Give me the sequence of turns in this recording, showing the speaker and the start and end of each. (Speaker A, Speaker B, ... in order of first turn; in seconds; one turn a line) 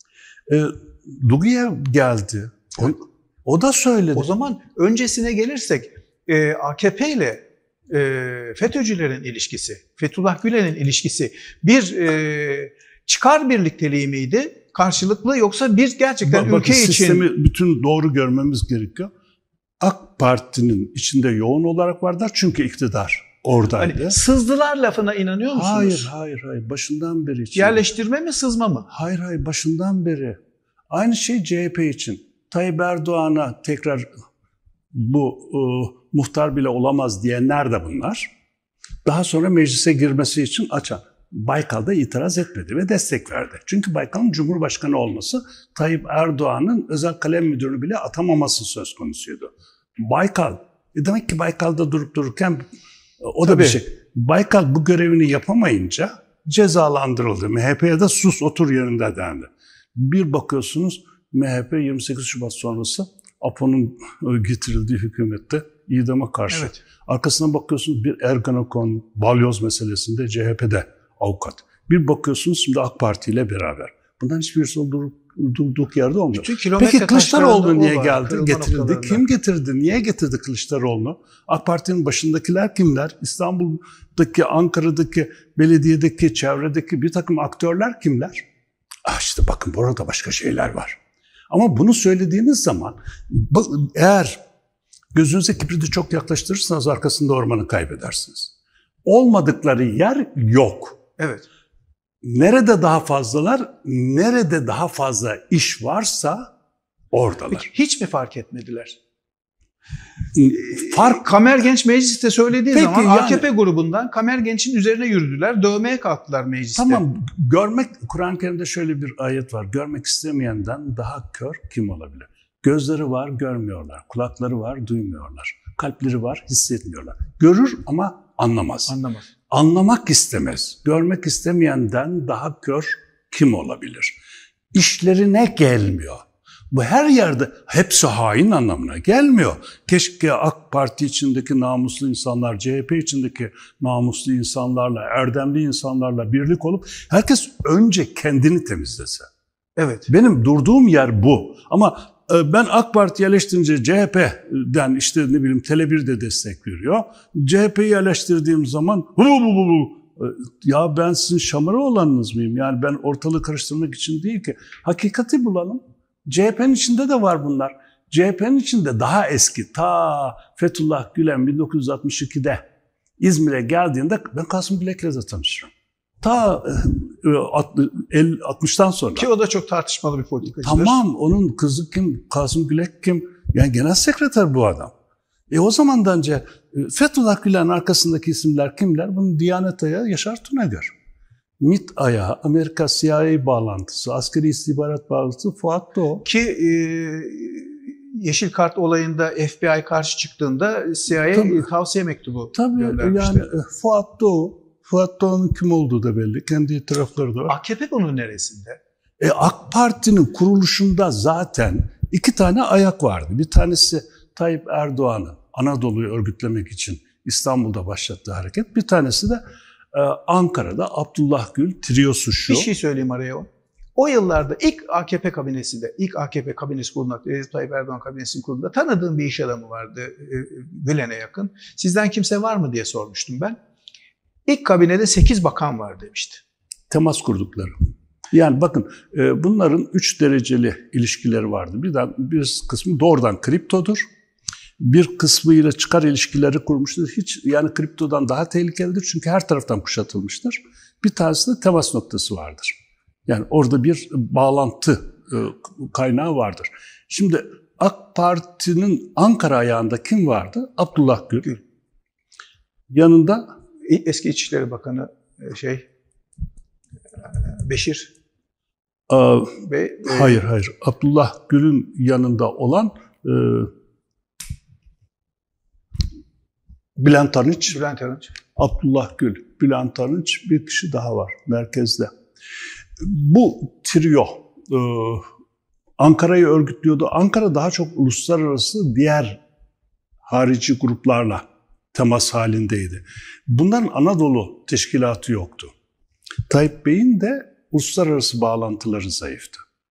Speaker A: 0.5-4.3
Speaker B: 4.1-17.2
Speaker A: 16.2-19.1
Speaker A: 19.8-24.2
Speaker B: 23.8-26.1
Speaker A: 25.5-27.8
Speaker B: 27.6-28.9
Speaker A: 28.9-30.4
Speaker A: 30.9-34.0
Speaker A: 34.9-38.3
Speaker A: 39.0-49.5
Speaker A: 50.0-52.6
Speaker A: 53.2-88.4
Speaker B: 53.4-53.8
Speaker B: 66.5-66.8
Speaker B: 76.3-79.2
Speaker A: 89.0-91.0
Speaker A: 91.5-94.4
Speaker A: 95.1-98.5
Speaker A: 99.0-101.0
Speaker B: 101.2-101.5
Speaker A: 102.2-106.5
Speaker A: 107.1-107.7
Speaker B: 107.5-109.0
Speaker A: 110.3-111.2
Speaker B: 110.5-117.0
Speaker A: 112.7-113.5
Speaker A: 116.8-128.9
Speaker B: 128.9-129.3
Speaker A: 129.5-134.2
Speaker A: 134.7-149.3
Speaker B: 149.8-150.1
Speaker A: 150.1-172.6
Speaker A: 173.2-175.7
Speaker A: 176.2-179.3
Speaker B: 179.2-181.0
Speaker A: 180.6-184.9
Speaker A: 185.5-190.9
Speaker A: 191.6-196.2
Speaker B: 196.2-203.5
Speaker A: 201.3-201.7
Speaker A: 202.5-207.5
Speaker B: 207.5-208.8
Speaker A: 209.2-219.4
Speaker A: 219.9-222.7
Speaker B: 222.5-233.6
Speaker B: 234.5-236.4
Speaker A: 236.9-237.8
Speaker A: 238.3-244.0
Speaker A: 244.8-252.8
Speaker A: 253.3-261.5
Speaker A: 262.9-263.4
Speaker B: 263.8-265.8
Speaker B: 267.2-268.1
Speaker A: 269.1-273.7
Speaker B: 269.6-270.4
Speaker A: 277.0-277.8
Speaker B: 277.7-278.3
Speaker A: 278.6-282.1
Speaker A: 283.0-285.2
Speaker A: 286.0-289.4
Speaker A: 290.2-295.7
Speaker A: 296.5-299.6